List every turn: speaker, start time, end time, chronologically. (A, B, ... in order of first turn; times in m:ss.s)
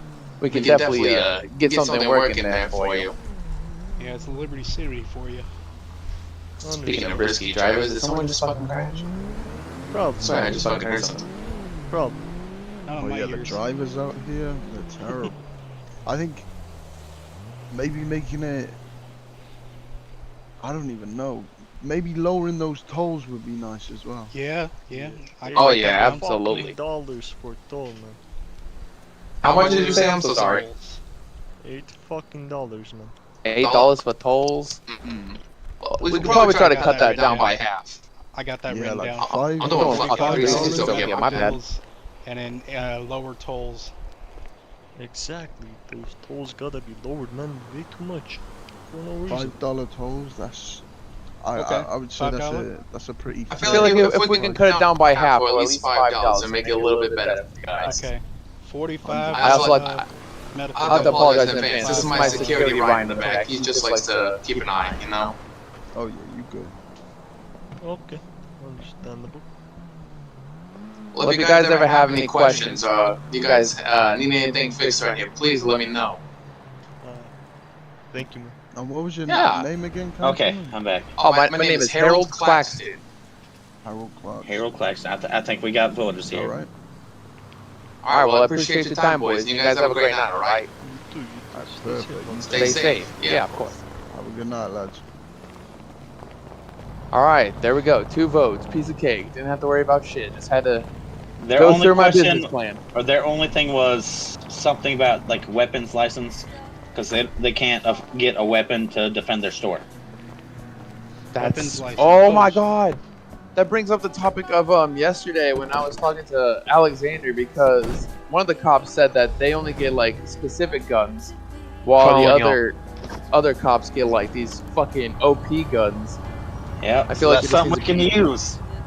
0:00.4-0:03.1 A
0:00.5-0:03.1 B
0:04.0-0:05.5 C
0:06.6-0:07.2 D
0:06.8-0:09.0 A
0:07.0-0:08.2 B
0:09.9-0:10.8 D
0:10.2-0:11.2 A
0:10.5-0:11.2 B
0:11.9-0:12.3 D
0:12.9-0:13.6 C
0:13.0-0:15.4 E
0:16.0-0:16.5 E
0:17.7-0:18.8 E
0:20.6-0:24.3 E
0:24.3-0:26.4 C
0:25.0-0:28.2 D
0:25.6-0:26.7 A
0:29.4-0:30.6 A
0:29.4-0:30.4 B
0:29.5-0:31.0 C
0:31.6-0:33.1 D
0:33.4-0:34.8 A
0:33.6-0:33.9 B
0:34.9-0:38.0 B
0:35.9-0:37.6 A
0:36.1-0:37.6 C
0:38.3-0:43.9 C
0:38.7-0:40.3 E
0:39.2-0:41.5 B
0:39.6-0:41.6 A
0:39.9-0:40.9 D
0:45.0-0:49.6 D
0:49.3-0:50.8 E
0:51.4-0:54.6 E
0:51.5-0:52.7 C
0:53.5-0:58.0 B
0:53.7-0:58.0 A
0:57.8-1:02.8 C
0:59.0-0:59.5 E
0:59.3-1:00.1 B
0:59.4-1:00.0 A
1:00.7-1:05.4 B
1:00.8-1:05.0 A
1:05.9-1:06.8 E
1:07.8-1:09.5 D
1:11.1-1:16.2 B
1:11.2-1:12.8 A
1:13.4-1:13.8 A
1:17.0-1:17.3 D
1:18.1-1:18.6 D
1:18.7-1:20.7 E
1:19.3-1:19.7 A
1:20.2-1:21.1 F
1:21.2-1:23.0 B
1:21.2-1:22.8 A
1:23.8-1:24.7 E
1:24.4-1:26.5 F
1:26.3-1:26.7 E
1:28.0-1:30.6 B
1:28.1-1:30.7 A
1:30.8-1:32.8 D
1:31.5-1:32.8 E
1:32.5-1:33.6 B
1:32.5-1:33.8 A
1:34.1-1:35.0 E
1:37.1-1:40.9 A
1:41.4-1:49.9 F
1:41.6-1:42.8 A
1:51.3-1:53.0 A
1:51.4-1:52.7 C
1:53.6-2:01.3 A
2:01.8-2:02.8 A
2:02.0-2:02.6 B
2:03.3-2:06.2 A
2:06.8-2:08.6 F
2:07.1-2:08.2 A